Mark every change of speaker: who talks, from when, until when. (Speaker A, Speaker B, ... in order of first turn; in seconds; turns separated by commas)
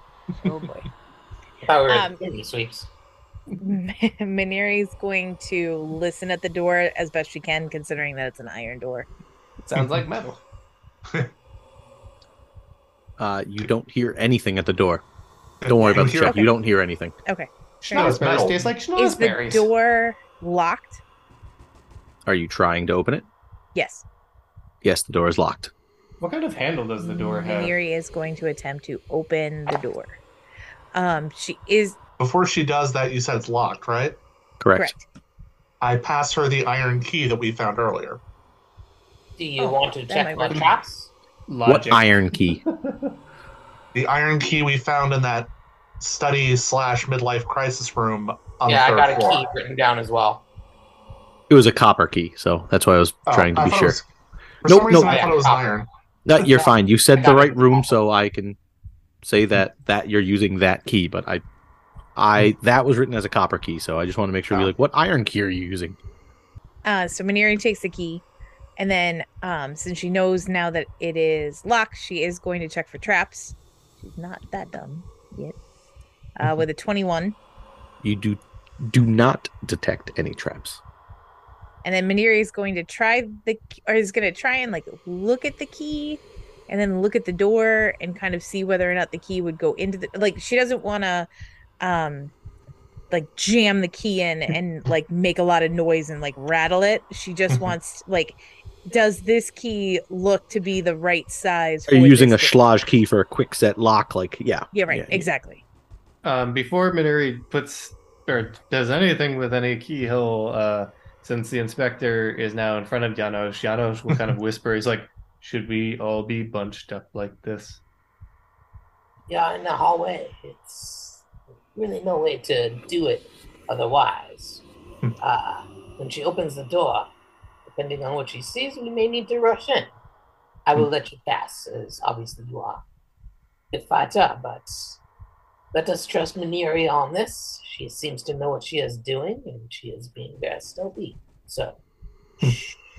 Speaker A: 0.4-0.9, Speaker B: 1.6-2.9, Speaker A: 1.9-2.2, Speaker A: 3.6-9.1, Speaker C: 9.6-10.4, Speaker D: 13.2-15.0, Speaker E: 15.6-16.4, Speaker D: 15.7-17.1, Speaker A: 16.0-16.5, Speaker A: 17.2-18.2, Speaker E: 17.8-18.7, Speaker C: 17.9-19.7, Speaker A: 18.9-21.0, Speaker D: 22.2-23.2, Speaker A: 23.7-24.0, Speaker D: 24.8-25.7, Speaker C: 26.2-27.8, Speaker A: 27.0-30.2, Speaker A: 30.9-32.0, Speaker E: 32.2-34.2, Speaker D: 34.6-34.9, Speaker A: 34.8-35.0, Speaker E: 35.8-38.2, Speaker B: 39.4-41.1, Speaker A: 39.6-40.7, Speaker C: 41.5-43.1, Speaker D: 41.6-42.6, Speaker E: 43.9-49.5, Speaker B: 48.7-50.4, Speaker D: 51.5-54.0, Speaker E: 53.3-54.0, Speaker E: 54.6-55.9, Speaker D: 54.6-55.2, Speaker B: 55.0-55.6, Speaker D: 56.2-58.6, Speaker B: 57.1-57.9, Speaker D: 59.2-61.4, Speaker D: 62.1-66.0, Speaker A: 66.8-68.2, Speaker A: 68.8-75.5, Speaker A: 76.4-77.3, Speaker D: 78.0-80.8, Speaker A: 81.8-91.3, Speaker A: 91.8-92.3, Speaker A: 93.1-102.6, Speaker D: 101.9-105.2, Speaker A: 104.7-105.6, Speaker C: 106.2-117.8, Speaker B: 119.3-124.6, Speaker B: 125.2-127.1, Speaker B: 127.7-129.9, Speaker B: 130.7-132.8, Speaker B: 133.7-135.0, Speaker B: 135.7-141.8, Speaker B: 142.4-142.7